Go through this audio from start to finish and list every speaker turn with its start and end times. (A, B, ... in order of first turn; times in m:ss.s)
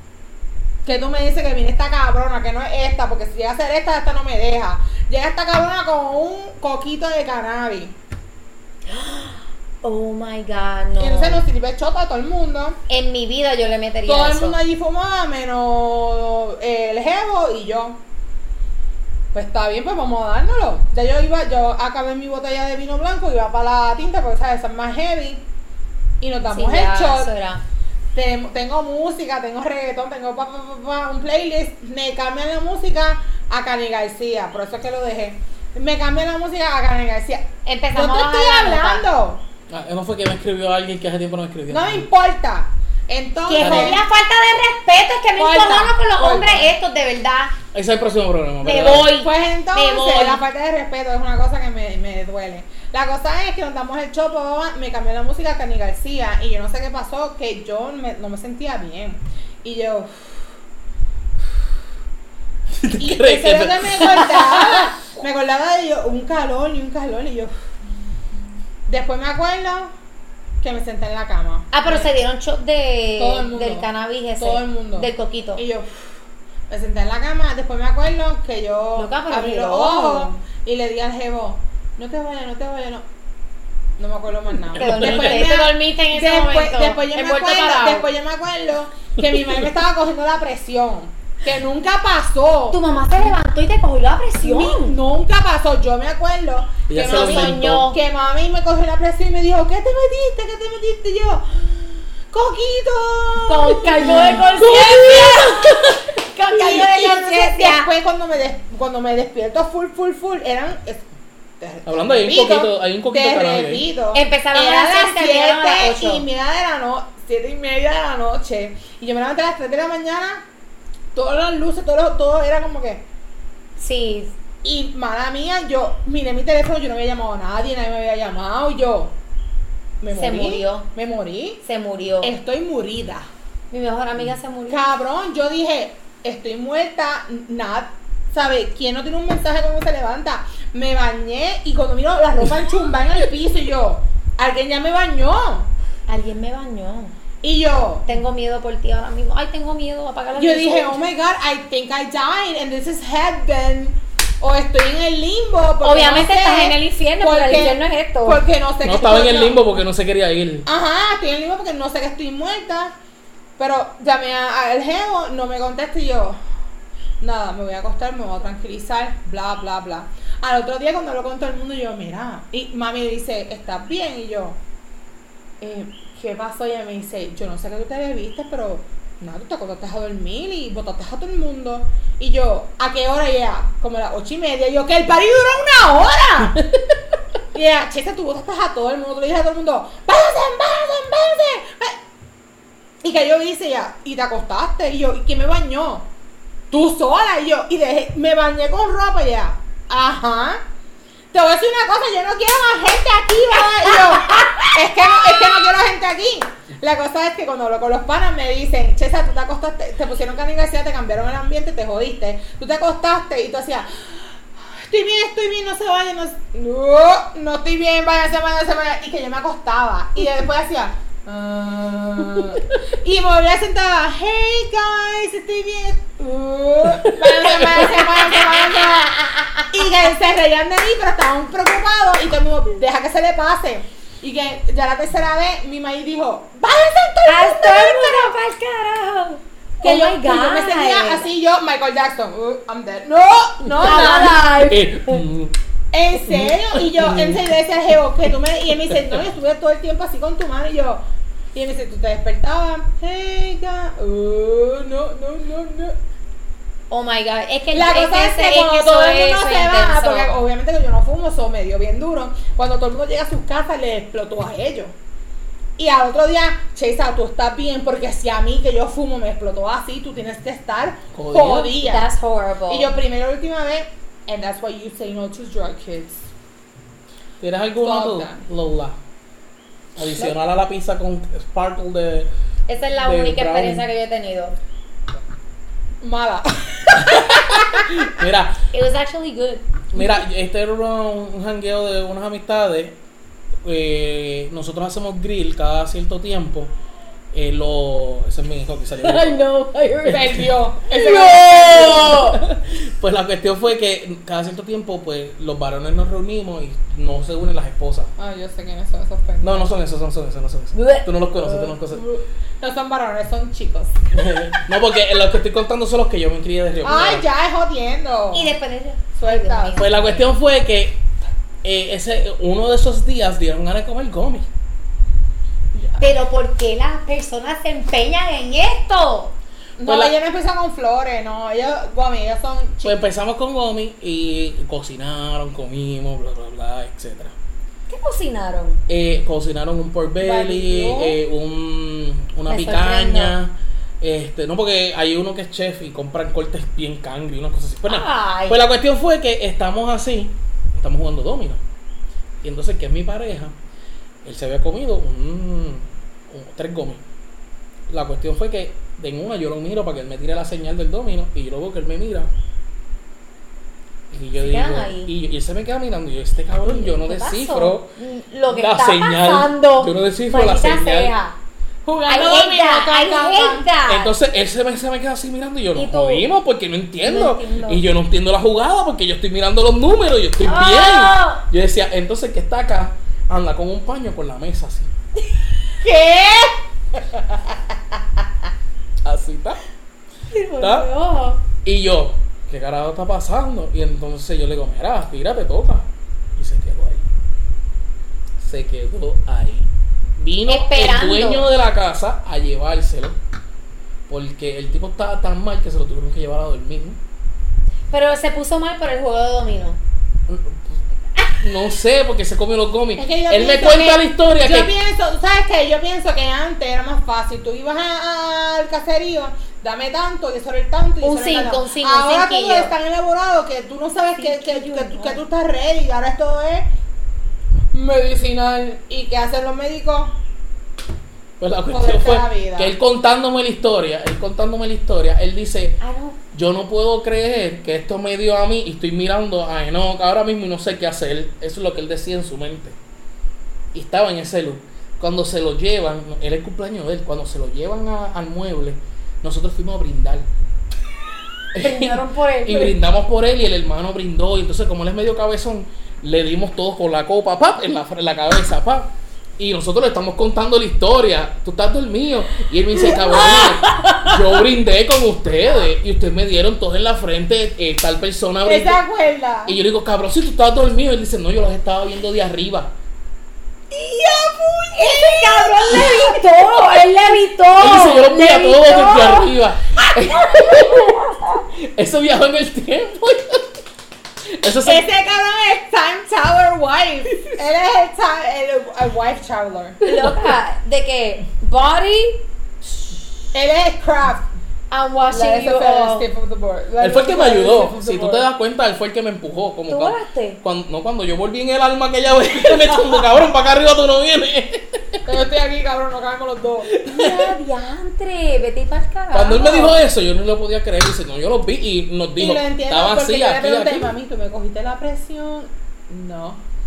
0:00.8-0:08.0 A
0:08.9-0:11.4 B
0:11.0-0:12.8 A
0:12.9-0:14.6 B
0:14.0-0:18.0 A
0:19.3-0:25.4 A
0:26.2-0:27.3 A
0:26.5-0:27.6 B
0:28.1-0:39.4 A
0:37.6-0:39.0 B
0:39.7-0:42.1 C
0:41.7-0:44.0 A
0:43.5-0:47.5 B
0:43.6-0:44.0 C
0:45.4-0:46.7 A
0:47.7-0:49.1 C
0:48.6-0:50.4 B
0:49.0-1:00.2 A
1:02.7-1:04.9 C
1:03.0-1:07.5 A
1:08.9-1:09.9 A
1:10.6-1:12.1 A
1:11.7-1:15.6 B
1:13.2-1:15.9 A
1:16.7-1:23.0 A
1:19.0-1:20.4 B
1:24.0-1:32.8 A
1:24.7-1:25.4 C
1:24.8-1:28.1 B
1:32.7-1:35.0 B
1:34.4-1:45.5 A
1:36.9-1:37.8 C
1:37.0-1:38.0 B
1:43.4-1:47.9 B
1:44.0-1:46.0 C
1:46.5-1:51.0 A
1:51.6-2:00.4 A
1:51.8-1:53.9 C
1:54.1-1:56.2 B
2:01.1-2:03.0 A
2:03.8-2:04.3 B
2:04.6-2:09.1 A
2:10.0-2:11.6 A
2:10.1-2:10.9 B
2:11.6-2:12.3 B
2:12.2-2:13.3 A
2:13.7-2:14.8 B
2:14.7-2:25.7 A
2:26.1-2:27.1 B
2:27.4-2:28.1 A
2:28.0-2:31.0 B
2:30.3-2:39.6 A
2:35.8-2:38.4 B
2:38.8-2:40.6 C
2:40.6-2:42.9 A
2:43.6-2:46.4 A
2:47.2-2:54.6 A
2:55.6-3:06.6 A
3:07.5-3:12.0 A
3:13.0-3:16.1 A
3:16.7-3:20.6 A
3:21.3-3:58.3 A
3:23.8-3:24.7 B
3:46.9-3:47.9 C
3:47.8-3:49.7 B
3:57.2-4:01.3 B
3:59.8-4:04.4 A
4:03.7-4:05.2 B
4:03.9-4:05.5 C
4:05.9-4:11.0 A
4:06.3-4:07.5 C
4:08.9-4:09.2 C
4:11.5-4:16.0 A
4:16.9-4:20.4 B
4:17.7-4:24.9 A
4:25.8-4:32.1 A
4:31.1-4:31.7 C
4:31.8-4:32.9 B
4:32.7-4:36.3 A
4:37.4-4:39.0 C
4:37.8-4:38.4 A
4:40.0-4:42.3 C
4:42.7-4:44.6 B
4:43.0-4:43.8 C
4:46.0-4:47.9 A
4:47.0-4:48.6 C
4:48.7-4:49.7 B
4:49.9-4:53.0 C
4:53.6-4:56.7 C
4:57.3-4:59.4 C
4:59.0-5:02.4 B
5:00.0-5:00.5 C
5:00.1-5:02.2 A
5:01.5-5:08.1 C
5:08.2-5:09.7 A
5:09.4-5:12.0 C
5:10.7-5:11.7 B
5:11.7-5:14.6 A
5:14.1-5:17.2 C
5:16.8-5:18.5 A
5:18.3-5:20.4 B
5:19.2-5:19.9 A
5:19.8-5:21.0 C
5:21.6-5:24.5 C
5:25.7-5:26.2 A
5:26.0-5:29.3 B
5:29.8-5:33.0 A
5:29.8-5:30.1 C
5:32.8-5:37.3 C
5:37.9-5:38.8 B
5:38.9-5:51.6 C
5:40.2-5:41.2 A
5:42.5-5:43.4 B
5:47.8-5:48.6 B
5:52.4-5:53.5 C
5:54.2-5:57.0 C
5:57.9-6:02.3 C
6:04.1-6:07.9 C
6:04.3-6:05.1 B
6:06.6-6:11.4 B
6:08.5-6:11.1 C
6:11.8-6:13.7 A
6:12.1-6:14.1 B
6:13.9-6:24.9 C
6:15.7-6:16.2 B
6:17.0-6:17.8 B
6:20.4-6:21.4 B
6:25.8-6:27.6 A
6:29.0-6:29.6 C
6:30.3-6:31.4 B
6:30.6-6:30.9 C
6:31.6-6:37.0 C
6:38.4-6:43.2 C
6:40.5-6:41.4 B
6:44.1-6:47.0 C
6:47.9-6:49.8 B
6:50.3-6:50.8 C
6:51.4-6:54.7 C
6:53.0-7:06.7 A
7:01.0-7:02.7 B
7:04.2-7:05.2 B
7:07.7-7:10.2 A
7:11.4-7:15.8 C
7:11.7-7:12.7 A
7:15.8-7:16.2 B
7:16.3-7:22.8 C
7:23.7-7:30.3 C
7:31.5-7:48.8 C
7:31.6-7:32.8 B
7:42.8-7:44.4 B
7:48.4-7:49.6 A
7:49.4-7:52.7 C
7:53.7-7:56.2 A
7:54.8-8:01.4 B
7:57.6-8:01.0 C
8:01.5-8:03.5 C
8:04.2-8:04.8 C
8:04.6-8:09.8 A
8:09.8-8:12.2 B
8:09.8-8:10.3 C
8:13.3-8:14.3 A
8:14.7-8:16.1 B
8:15.1-8:18.3 A
8:16.8-8:25.0 C
8:19.7-8:20.4 B
8:25.1-8:26.7 A
8:26.7-8:27.3 C
8:26.8-8:29.8 B
8:29.1-8:33.9 C
8:32.2-8:36.4 A